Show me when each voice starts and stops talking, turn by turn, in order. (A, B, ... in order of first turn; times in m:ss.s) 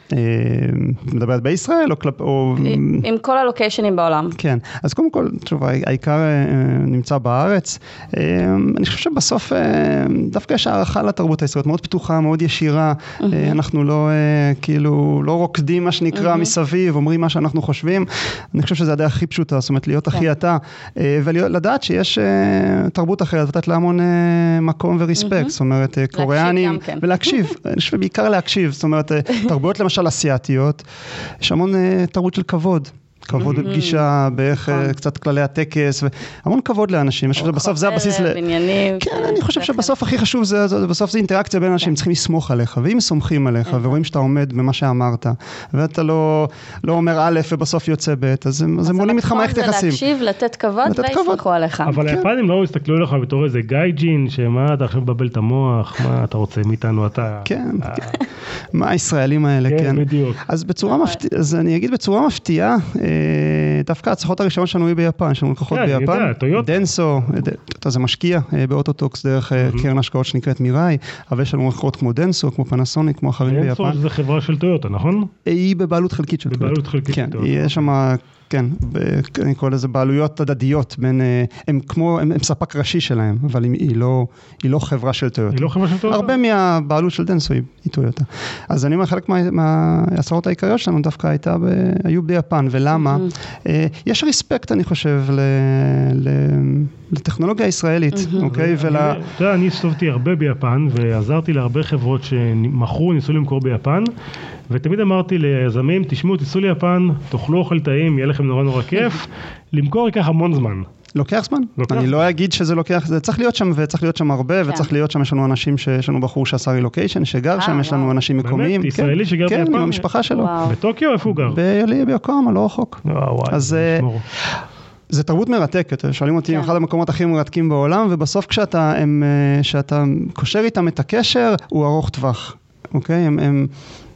0:00.1-0:03.0 A
0:02.6-0:04.4 B
0:04.4-0:30.8 A
0:13.2-0:13.6 B
0:25.2-0:25.5 B
0:26.1-0:27.0 B
0:31.4-0:38.4 A
0:33.3-0:33.8 C
0:33.4-0:34.1 B
0:37.4-0:39.9 B
0:39.0-0:50.0 A
0:48.8-0:52.0 B
0:50.8-0:51.4 A
0:51.8-0:58.2 C
0:57.4-0:58.2 A
0:58.7-1:14.0 A
0:59.7-1:00.4 C
1:00.9-1:01.2 B
1:05.7-1:06.9 C
1:09.6-1:09.9 C
1:13.5-1:15.3 C
1:15.4-1:39.2 A
1:16.5-1:17.9 C
1:25.5-1:26.4 C
1:38.1-1:38.5 B
1:38.5-1:44.1 C
1:44.7-1:50.9 C
1:51.2-2:00.6 A
1:51.8-1:52.2 C
1:57.6-1:58.2 B
1:58.4-2:01.6 C
2:00.3-2:00.8 B
2:01.3-2:04.0 A
2:03.0-2:04.2 C
2:05.1-2:13.7 A